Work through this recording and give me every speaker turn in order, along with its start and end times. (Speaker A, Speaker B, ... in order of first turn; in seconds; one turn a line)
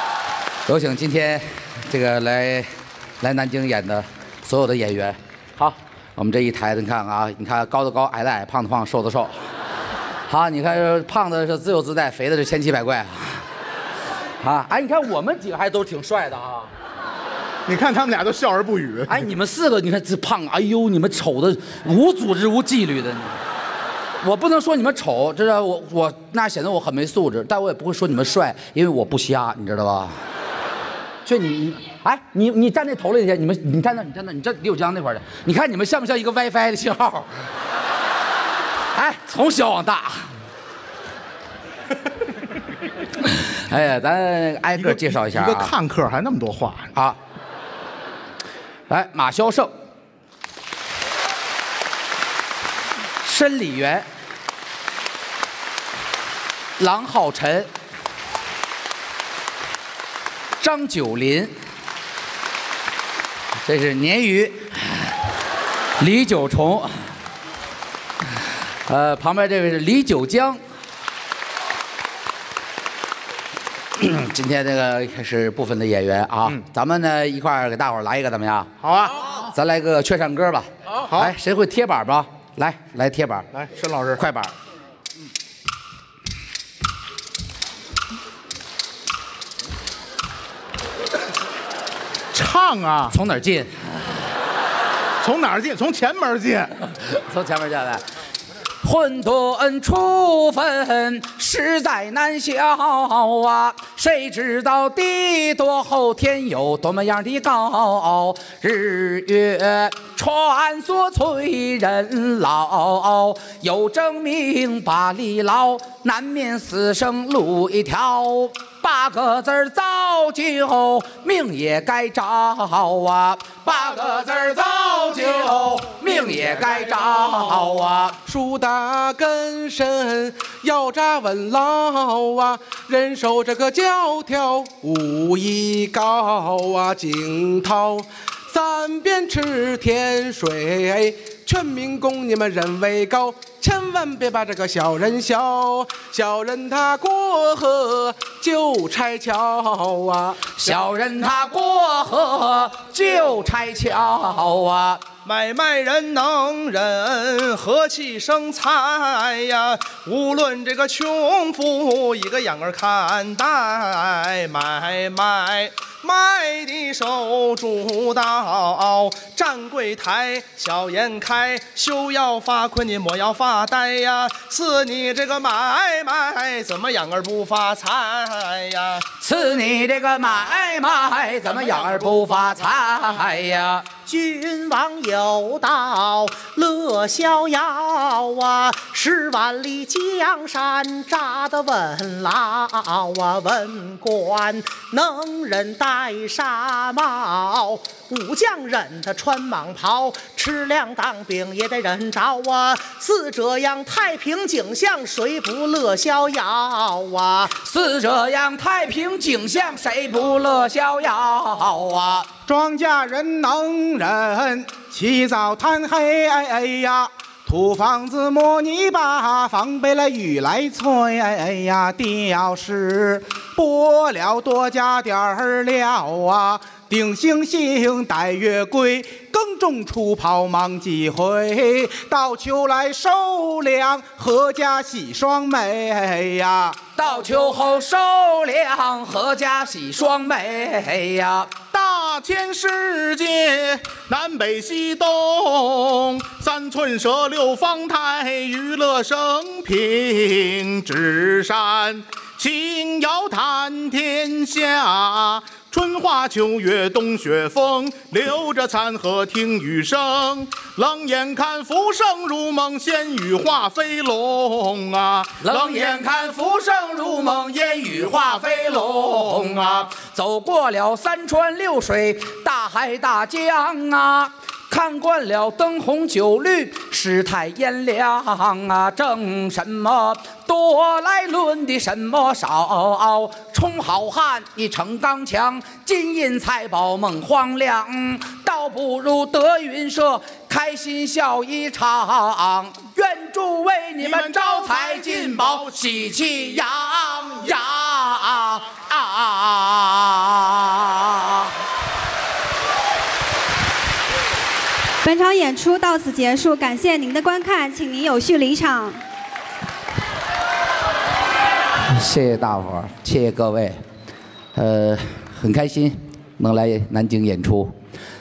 Speaker A: 0.7-9.3
Speaker A: 10.3-13.4
Speaker A: 14.4-16.7
Speaker B: 17.6-19.3
Speaker A: 19.1-23.4
Speaker A: 24.2-30.2
Speaker A: 31.2-37.3
Speaker A: 38.9-40.3
Speaker A: 43.2-45.7
Speaker B: 44.7-46.9
Speaker A: 48.9-49.7
Speaker A: 53.2-54.0
Speaker A: 56.8-57.7
Speaker A: 60.6-61.5
Speaker A: 63.6-65.1
Speaker A: 66.0-67.1
Speaker A: 68.9-70.6
Speaker A: 74.0-83.5
Speaker B: 78.8-79.2
Speaker B: 81.0-81.3
Speaker B: 83.5-84.2
Speaker A: 84.2-84.5
Speaker B: 92.3-93.1
Speaker A: 93.1-94.0
Speaker B: 95.2-96.7
Speaker A: 96.9-98.0
Speaker A: 98.8-128.2
Speaker B: 124.0-125.4
Speaker B: 126.0-127.4
Speaker C: 128.2-150.6
Speaker A: 150.6-155.0
Speaker D: 155.2-179.0
Speaker A: 179.2-183.9
Speaker B: 181.6-182.2
Speaker E: 184.1-207.5
Speaker A: 207.5-212.3
Speaker F: 212.4-236.8
Speaker A: 236.9-241.5
Speaker B: 241.7-266.1
Speaker A: 265.4-301.5
Speaker B: 267.6-269.9
Speaker B: 294.0-296.7
Speaker G: 305.0-309.0
Speaker A: 311.9-313.8
Speaker A: 314.5-317.7